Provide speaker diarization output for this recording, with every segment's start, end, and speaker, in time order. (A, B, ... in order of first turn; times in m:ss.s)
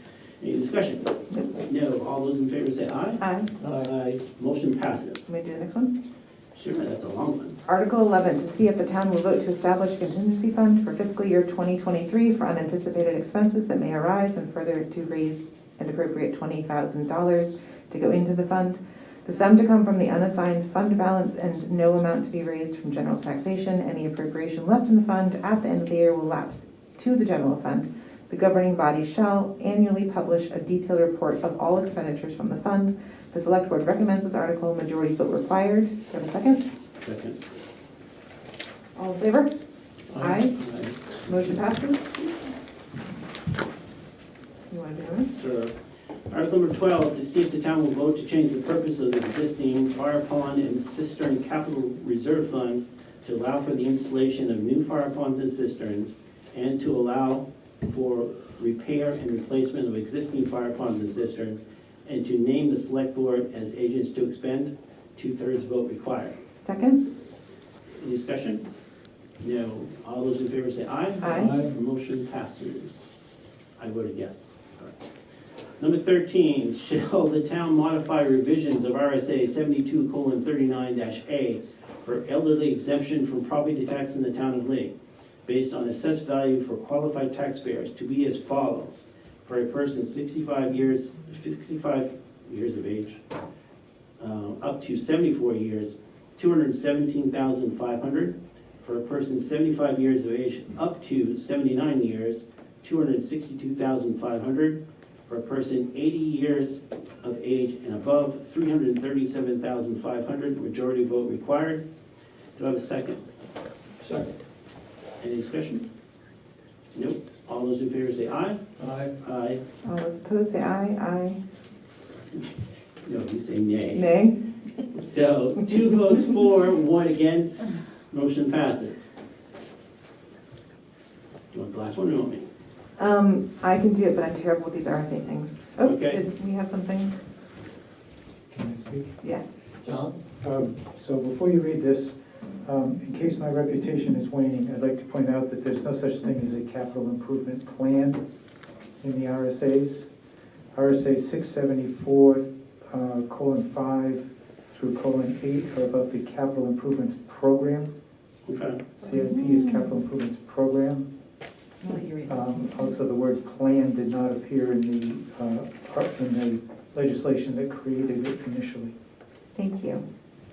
0:00.4-0:03.2 A
0:03.2-0:03.5 B
0:03.6-0:03.9 C
0:03.8-0:05.3 A
0:05.3-0:05.9 B
0:06.6-0:07.6 A
0:07.7-0:36.6 B
0:37.0-0:37.4 A
0:39.0-0:39.5 B
0:40.1-0:40.5 C
0:40.1-0:40.6 B
0:40.6-0:41.6 A
0:41.2-0:42.5 B
0:44.7-0:45.3 B
0:45.4-0:45.7 A
0:46.3-1:06.4 A
1:06.6-1:07.0 B
1:08.0-1:08.6 A
1:09.4-1:13.1 A
1:11.2-1:11.6 B
1:11.4-1:11.7 C
1:13.8-1:15.0 A
1:15.8-1:24.9 A
1:25.4-1:33.2 A
1:34.2-1:51.8 A
1:52.6-1:53.2 A
1:54.0-1:54.4 C
1:55.2-1:55.8 A
1:56.9-1:59.6 A
1:58.8-1:59.1 C
1:59.8-2:01.4 B
2:03.0-2:04.1 A
2:04.0-2:04.4 B
2:04.9-2:09.1 A
2:11.5-2:12.4 A
2:13.0-2:17.2 B
2:15.8-2:16.2 A
2:18.5-2:19.2 D
2:19.8-2:20.2 C
2:20.4-2:28.2 D
2:29.0-2:30.1 D
2:30.7-2:37.9 D
2:38.5-2:38.8 A
2:39.0-2:41.1 D
2:39.1-2:39.9 B
2:41.8-2:42.9 B
2:42.3-2:48.9 D
2:49.6-2:50.0 B